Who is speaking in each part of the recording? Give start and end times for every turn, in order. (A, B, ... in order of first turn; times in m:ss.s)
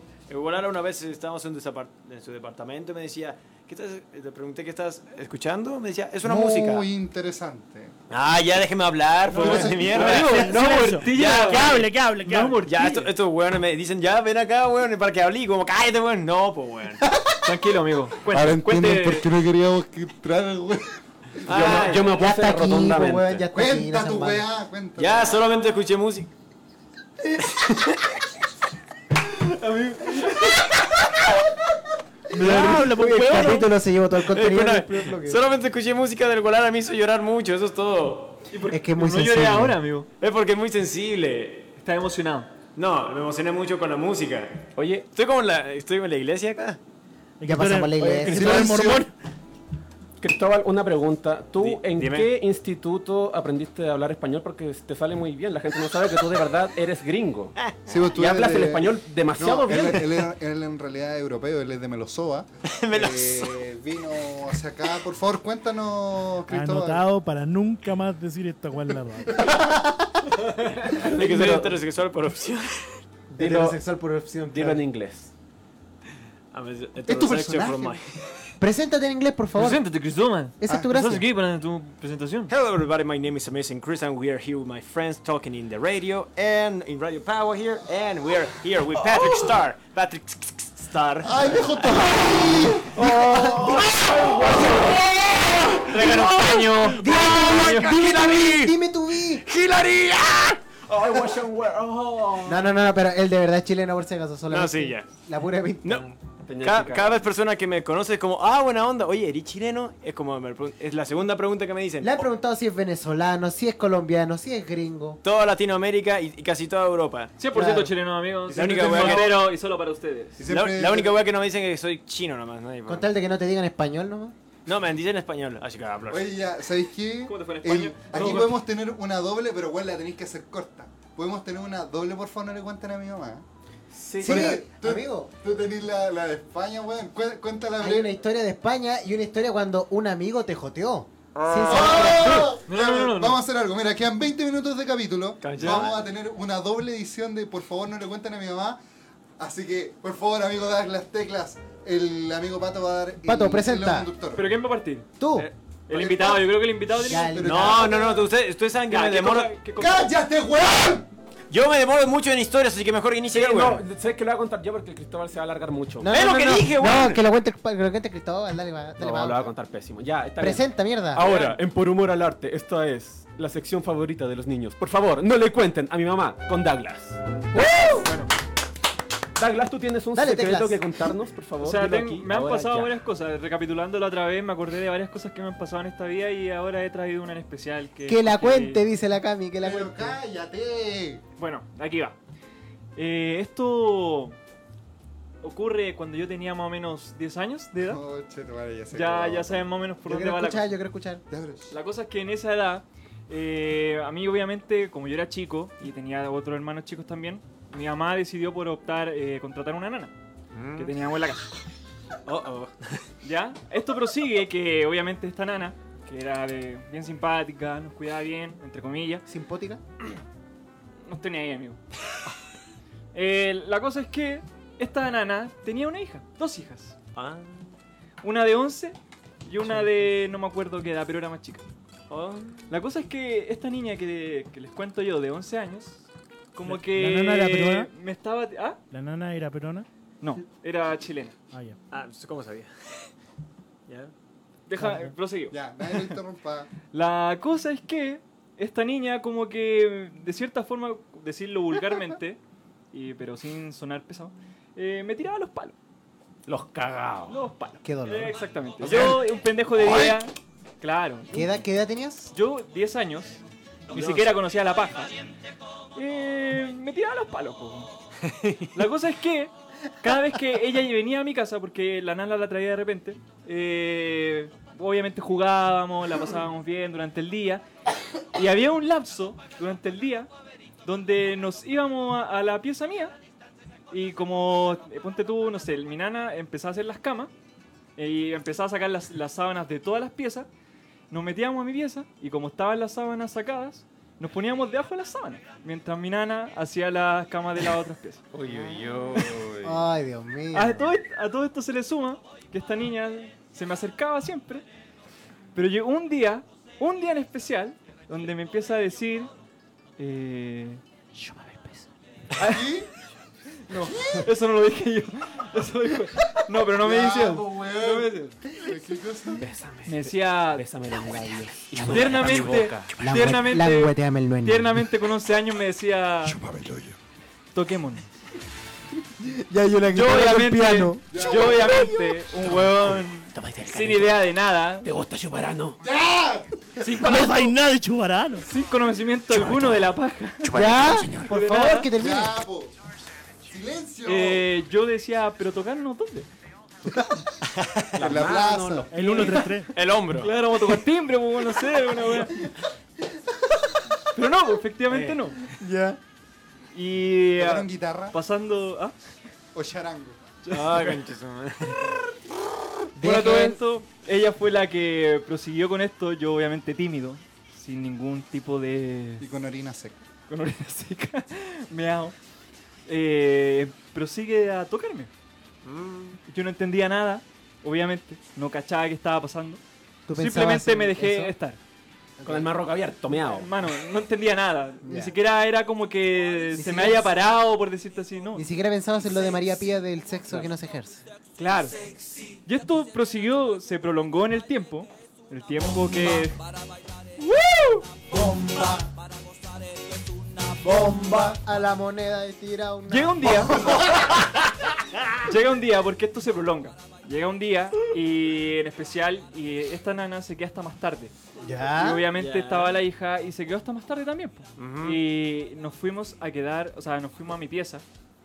0:00.3-0:06.9 A
0:06.2-0:07.9 B
0:08.1-0:11.9 A
0:09.3-0:10.1 B
0:09.3-0:12.6 C
0:09.4-0:13.1 D
0:12.6-0:17.0 A
0:17.4-0:19.3 D
0:18.3-0:21.8 B
0:21.4-0:22.1 A
0:21.5-0:23.4 E
0:21.6-0:24.5 F
0:23.5-0:25.3 B
0:25.0-0:26.3 A
0:27.4-0:28.2 A
0:29.2-0:30.8 D
0:32.3-0:33.7 C
0:32.3-0:35.4 F
0:32.4-0:33.2 D
0:34.2-0:38.4 A
0:38.5-0:40.1 D
0:38.7-0:39.8 F
0:40.2-0:41.7 A
0:41.8-0:42.5 D
0:42.8-0:46.8 A
0:44.8-0:45.0 E
0:47.4-0:49.1 C
0:47.4-0:48.8 F
0:48.3-0:49.1 B
0:50.2-0:57.6 E
0:51.6-0:52.3 A
0:57.9-1:07.0 B
0:58.1-1:00.3 E
1:02.7-1:03.6 A
1:06.5-1:09.4 C
1:09.4-1:10.2 F
1:10.9-1:13.0 A
1:10.9-1:11.7 E
1:13.3-1:13.8 E
1:13.3-1:14.8 F
1:14.5-1:15.3 E
1:16.5-1:18.2 A
1:17.1-1:18.0 B
1:18.6-1:19.8 F
1:19.5-1:22.5 D
1:20.6-1:21.2 F
1:22.5-1:32.1 A
1:31.2-1:33.0 B
1:32.9-1:36.3 E
1:33.0-1:33.8 F
1:33.4-1:36.4 A
1:35.9-1:38.0 D
1:36.9-1:39.4 F
1:37.1-1:38.7 A
1:39.4-1:40.6 A
1:40.8-1:42.6 E
1:42.4-1:46.1 F
1:44.5-1:45.1 A
1:46.4-1:47.2 E
1:46.6-1:52.3 A
1:52.0-1:55.2 F
1:55.2-1:57.4 A
1:57.4-2:00.4 D
1:57.5-1:57.9 F
1:58.4-1:59.4 A
1:58.6-1:59.3 B
2:00.4-2:01.2 B
2:00.4-2:03.1 A
2:02.9-2:04.3 F
2:04.6-2:06.3 A
2:06.1-2:13.4 B
2:07.2-2:08.6 D
2:13.9-2:14.6 E
2:14.2-2:18.1 B
2:14.2-2:15.3 F
2:17.8-2:22.5 F
2:21.4-2:22.2 A
2:21.6-2:28.8 B
2:22.3-2:23.4 D
2:25.4-2:26.0 A
2:29.4-2:34.5 B
2:33.2-2:34.1 F
2:34.3-2:35.1 D
2:35.2-2:35.5 F
2:35.9-2:37.6 D
2:35.9-2:38.3 B
2:37.0-2:37.9 F
2:37.4-2:39.6 A
2:38.9-2:40.1 D
2:39.8-2:41.1 B
2:41.5-2:43.8 A
2:43.3-2:46.1 E
2:46.0-2:49.5 F
2:46.1-2:47.2 A
2:49.0-2:57.2 E
2:50.4-2:51.2 F
2:51.2-2:51.5 D
2:51.2-2:51.5 A
2:57.6-2:58.3 D
2:59.4-3:02.9 E
3:00.1-3:00.8 F
3:01.6-3:08.8 D
3:08.1-3:10.2 F
3:09.6-3:11.2 B
3:11.4-3:12.2 D
3:13.0-3:14.4 D
3:15.4-3:18.0 D
3:17.8-3:19.6 B
3:18.9-3:20.7 D
3:20.0-3:21.2 F
3:21.3-3:21.7 B
3:21.7-3:30.1 D
3:30.5-3:30.9 A
3:30.8-3:31.5 D
3:32.2-3:33.0 A
3:33.2-3:39.2 D
3:39.3-3:39.8 F
3:41.1-3:41.8 D
3:43.1-3:47.0 D
3:47.1-3:47.7 A
3:48.2-3:51.6 D
3:52.1-3:52.7 A
3:52.7-3:58.8 D
3:56.6-3:57.9 C
3:58.9-3:59.9 C
4:00.2-4:01.4 D
4:01.5-4:01.8 C
4:01.9-4:03.1 A
4:03.9-4:04.1 A
4:04.7-4:06.2 D
4:04.8-4:05.0 C
4:05.5-4:06.7 B
4:06.9-4:12.4 D
4:12.9-4:15.7 D
4:16.5-4:17.4 E
4:17.3-4:21.5 D
4:17.8-4:18.4 F
4:18.8-4:19.1 A
4:21.3-4:22.3 F
4:22.3-4:25.1 D
4:23.9-4:24.3 A
4:25.9-4:27.9 D
4:28.2-4:28.8 A
4:28.7-4:37.6 D
4:38.3-4:40.3 D
4:40.8-4:43.1 D
4:43.9-4:47.3 D
4:48.0-4:50.5 D
4:51.1-4:58.2 D
4:58.3-4:59.8 E
4:59.6-5:00.9 F
5:00.5-5:04.6 D
5:05.5-5:09.3 D
5:10.0-5:10.8 D
5:12.4-5:12.8 D
5:12.4-5:12.9 B
5:13.7-5:14.2 F
5:13.8-5:18.4 D
5:13.9-5:14.3 B
5:16.8-5:19.4 B
5:19.4-5:22.9 E
5:19.8-5:20.6 D
5:21.8-5:26.4 D
5:22.1-5:22.4 A
5:23.0-5:24.8 F
5:26.5-5:26.9 B
5:27.5-5:28.1 D
5:29.2-5:31.1 F
5:29.9-5:34.9 D
5:31.1-5:31.8 B
5:33.3-5:34.1 E
5:34.8-5:35.8 E
5:35.8-5:36.8 B
5:36.8-5:37.5 D
5:36.9-5:38.5 C
5:38.5-5:40.6 D
5:40.5-5:42.4 F
5:40.6-5:41.2 E
5:41.2-5:41.9 D
5:42.0-5:42.7 B
5:43.4-5:44.4 B
5:44.0-5:46.3 D
5:47.4-5:48.0 A
5:48.0-5:49.4 E
5:48.0-5:48.9 B
5:48.9-5:49.7 C
5:49.0-5:49.6 D
5:49.0-5:50.4 A
5:50.2-5:52.5 D
5:54.1-5:55.9 D
5:54.9-5:55.2 A
5:56.7-5:59.0 D
5:57.4-5:58.2 B
5:59.5-6:00.2 B
6:00.4-6:01.0 D
6:00.5-6:01.8 A
6:03.0-6:03.6 F
6:03.0-6:09.2 D
6:09.2-6:10.0 B
6:10.3-6:12.1 D
6:12.9-6:15.1 D
6:15.6-6:16.2 A
6:16.3-6:19.6 D
6:20.1-6:21.3 F
6:20.1-6:21.6 D
6:22.2-6:22.5 F
6:22.2-6:23.5 E
6:23.2-6:28.4 D
6:24.8-6:25.1 F
6:26.5-6:27.1 F
6:28.3-6:31.0 F
6:31.4-6:31.8 D
6:32.4-6:36.4 D
6:37.2-6:37.9 D
6:38.1-6:38.8 F
6:40.6-6:43.8 F
6:42.9-6:43.9 D
6:45.2-6:51.1 D
6:51.4-6:52.0 F
6:51.7-6:57.8 D
6:52.1-6:52.8 A
6:54.6-6:55.0 A